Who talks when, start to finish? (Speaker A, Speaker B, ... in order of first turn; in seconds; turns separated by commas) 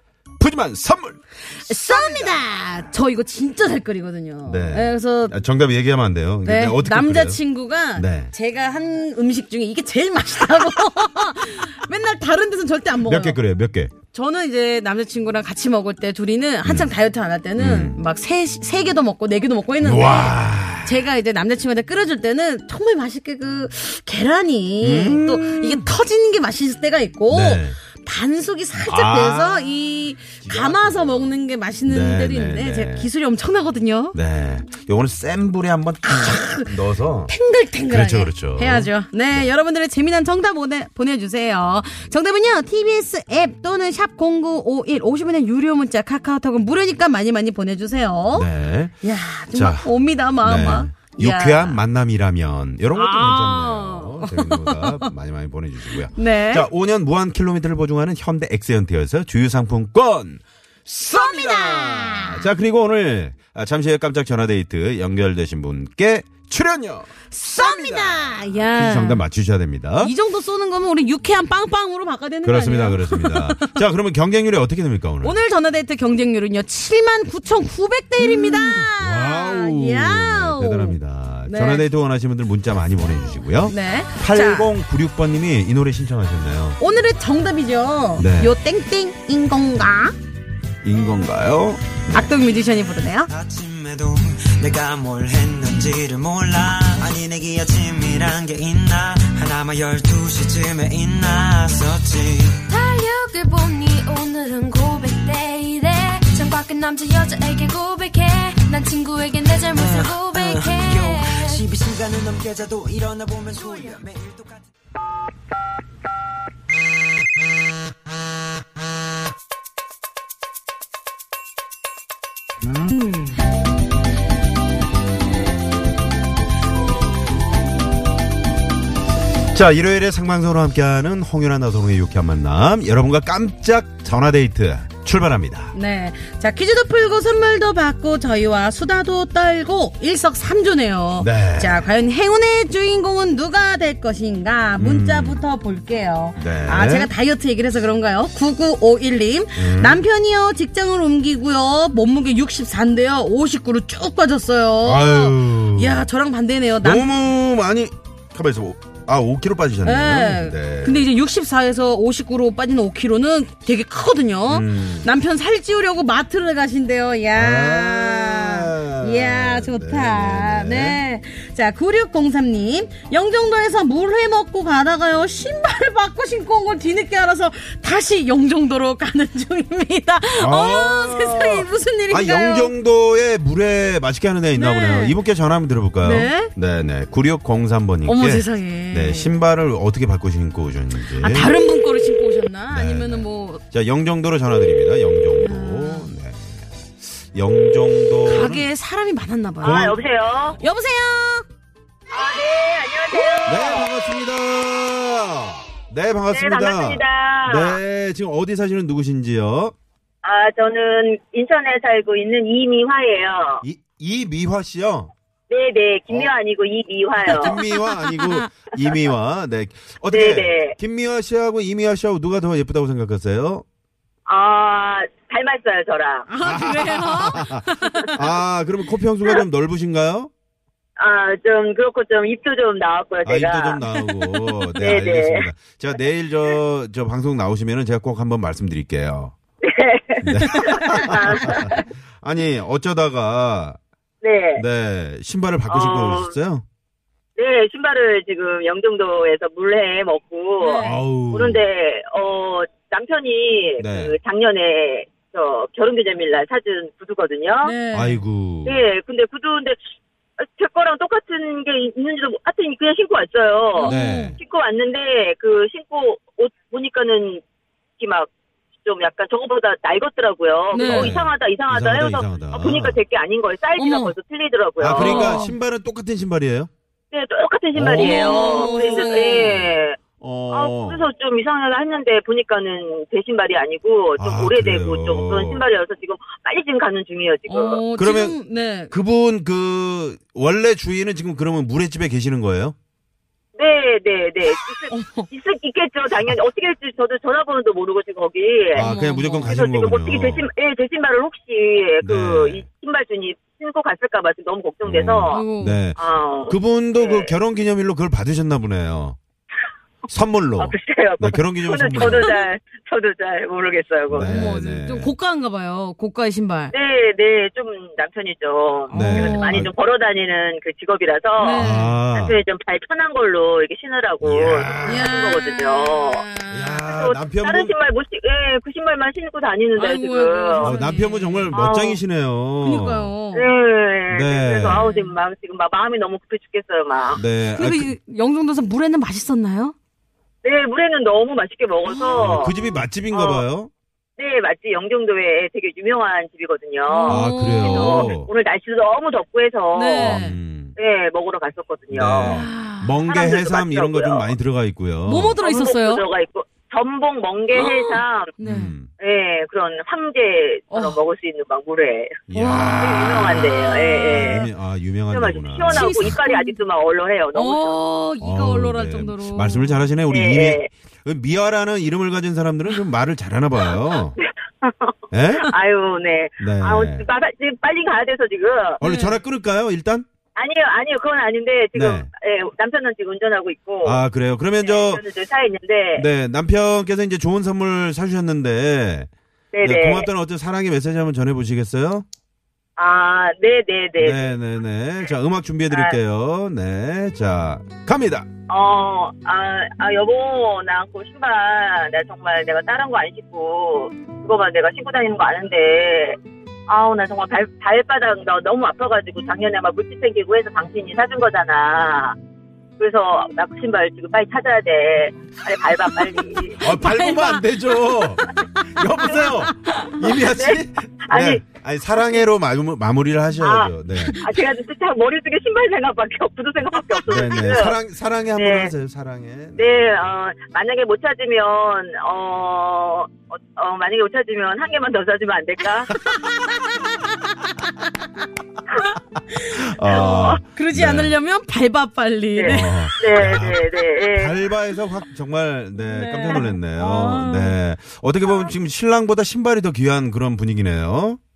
Speaker A: 0.4-2.5, Speaker B: 1.6-5.4, Speaker A: 4.5-7.4, Speaker B: 6.5-13.4, Speaker A: 7.9-8.3, Speaker A: 13.0-13.9, Speaker B: 14.1-34.2, Speaker A: 16.6-16.9, Speaker A: 17.6-18.0, Speaker A: 19.8-21.1, Speaker A: 24.8-25.9, Speaker A: 27.3-27.8, Speaker A: 28.8-29.9, Speaker A: 30.4-31.4, Speaker A: 31.9-33.1, Speaker A: 34.1-37.3, Speaker B: 36.0-36.7, Speaker B: 37.3-48.5, Speaker A: 37.9-39.5, Speaker A: 48.3-49.0, Speaker B: 49.0-51.8, Speaker A: 49.5-70.1, Speaker B: 52.9-55.1, Speaker B: 56.1-56.7, Speaker B: 61.1-62.5, Speaker B: 67.3-69.2, Speaker B: 70.0-73.8, Speaker A: 72.4-75.4, Speaker B: 75.2-81.9, Speaker A: 78.2-86.8, Speaker B: 83.7-84.7, Speaker B: 86.8-90.2, Speaker A: 88.2-88.6, Speaker A: 90.8-92.4, Speaker B: 92.1-93.3, Speaker C: 93.3-102.7, Speaker D: 102.7-111.7, Speaker C: 109.7-114.7, Speaker D: 113.6-113.9, Speaker A: 129.5-135.8, Speaker B: 135.7-157.1, Speaker A: 141.2-141.9, Speaker A: 144.8-145.4, Speaker A: 146.4-147.1, Speaker A: 149.6-150.0, Speaker A: 154.8-156.1, Speaker A: 156.8-161.1, Speaker B: 159.8-182.7, Speaker A: 164.5-165.1, Speaker A: 167.3-171.0, Speaker A: 180.3-191.6, Speaker B: 184.6-185.2, Speaker B: 186.0-186.5, Speaker B: 188.1-189.3, Speaker B: 191.2-193.6, Speaker A: 192.7-196.7, Speaker B: 195.4-196.1, Speaker A: 197.2-198.7, Speaker B: 198.2-200.0, Speaker A: 199.6-200.0, Speaker E: 199.6-200.6, Speaker B: 200.6-201.5, Speaker E: 202.1-203.9, Speaker A: 203.4-209.7, Speaker E: 206.3-207.8, Speaker E: 210.2-213.6, Speaker A: 213.6-215.1, Speaker E: 215.5-217.6, Speaker A: 217.2-223.6, Speaker B: 217.3-218.5, Speaker E: 220.1-220.7, Speaker E: 224.3-226.3, Speaker B: 226.3-228.2, Speaker A: 226.4-230.3, Speaker E: 231.0-233.8, Speaker A: 233.2-239.3, Speaker B: 233.9-234.6, Speaker E: 234.8-235.5, Speaker E: 239.6-241.8, Speaker A: 240.2-243.8, Speaker E: 244.2-244.6, Speaker A: 244.6-246.6, Speaker E: 245.7-246.3, Speaker E: 247.4-257.8, Speaker B: 250.6-251.0, Speaker A: 250.8-251.7, Speaker A: 253.8-254.2, Speaker B: 257.6-258.2, Speaker A: 257.9-258.8, Speaker E: 258.6-259.8, Speaker E: 260.4-267.4, Speaker B: 263.8-264.4, Speaker A: 263.8-264.4, Speaker E: 268.0-268.3, Speaker E: 268.8-275.4, Speaker B: 270.7-271.2, Speaker A: 270.8-273.0, Speaker B: 273.8-274.1, Speaker A: 274.8-276.7, Speaker B: 274.9-275.6, Speaker E: 277.1-280.0, Speaker A: 277.7-279.7, Speaker B: 277.8-279.6, Speaker A: 280.2-281.1, Speaker E: 280.5-287.8, Speaker A: 284.2-285.7, Speaker B: 287.5-288.9, Speaker A: 288.0-288.4, Speaker A: 288.9-292.8, Speaker E: 293.6-298.9, Speaker B: 294.9-295.3, Speaker A: 298.7-300.5, Speaker B: 298.8-299.6, Speaker E: 299.4-305.5, Speaker A: 302.0-302.6, Speaker A: 304.8-309.2, Speaker B: 305.3-305.8, Speaker E: 306.0-307.3, Speaker A: 310.1-312.3, Speaker E: 310.6-314.3, Speaker B: 312.0-312.4, Speaker A: 314.1-315.1, Speaker B: 314.2-316.7, Speaker E: 316.7-326.3, Speaker B: 318.9-319.6, Speaker A: 318.9-319.7, Speaker B: 321.4-322.0, Speaker A: 321.5-322.4, Speaker A: 324.2-325.1, Speaker B: 324.9-326.9, Speaker A: 326.5-327.7, Speaker E: 326.9-330.8, Speaker B: 329.8-331.6, Speaker A: 330.6-333.1, Speaker E: 331.5-332.0, Speaker B: 332.6-333.5, Speaker E: 333.3-337.2, Speaker A: 334.1-334.8, Speaker B: 334.7-335.2, Speaker A: 337.1-337.9, Speaker B: 337.5-339.8, Speaker E: 340.4-342.5, Speaker B: 341.9-342.8, Speaker A: 342.2-343.7, Speaker E: 343.1-343.4, Speaker E: 344.2-350.2, Speaker B: 346.9-348.1, Speaker A: 347.1-348.3, Speaker B: 349.7-350.4, Speaker A: 350.0-350.8, Speaker E: 350.8-352.5, Speaker A: 351.9-355.4, Speaker B: 352.2-353.0, Speaker E: 353.1-354.3, Speaker B: 355.1-356.0, Speaker E: 355.4-358.3, Speaker B: 357.6-358.8, Speaker A: 358.4-358.9, Speaker E: 359.0-362.2, Speaker B: 360.7-361.0, Speaker A: 362.3-366.2, Speaker B: 362.3-362.9, Speaker E: 362.7-364.5, Speaker B: 363.5-364.4, Speaker E: 365.1-367.8, Speaker B: 365.7-366.6, Speaker B: 367.3-369.8, Speaker A: 368.2-374.2, Speaker E: 370.1-370.7, Speaker E: 374.2-378.8, Speaker A: 375.1-375.5, Speaker A: 376.4-377.1, Speaker B: 378.8-379.2, Speaker A: 378.8-380.1, Speaker E: 380.4-384.0, Speaker A: 381.8-382.1, Speaker A: 383.8-385.0, Speaker E: 384.6-386.1, Speaker A: 386.0-389.1, Speaker E: 389.5-390.1, Speaker A: 389.6-392.1, Speaker E: 392.8-394.3, Speaker A: 394.0-398.3, Speaker E: 395.7-396.0, Speaker E: 398.5-406.2, Speaker E: 406.7-412.1, Speaker E: 412.8-416.6, Speaker A: 416.6-424.2, Speaker B: 416.7-418.0, Speaker B: 418.6-419.7, Speaker E: 419.0-421.4, Speaker E: 423.4-427.8, Speaker B: 424.0-424.2, Speaker A: 427.1-430.1, Speaker E: 428.4-428.7, Speaker E: 429.6-435.9, Speaker B: 435.9-437.7, Speaker B: 439.4-442.9, Speaker A: 439.4-441.1, Speaker E: 439.8-440.4, Speaker E: 442.4-444.4, Speaker A: 442.5-451.2, Speaker B: 445.8-447.6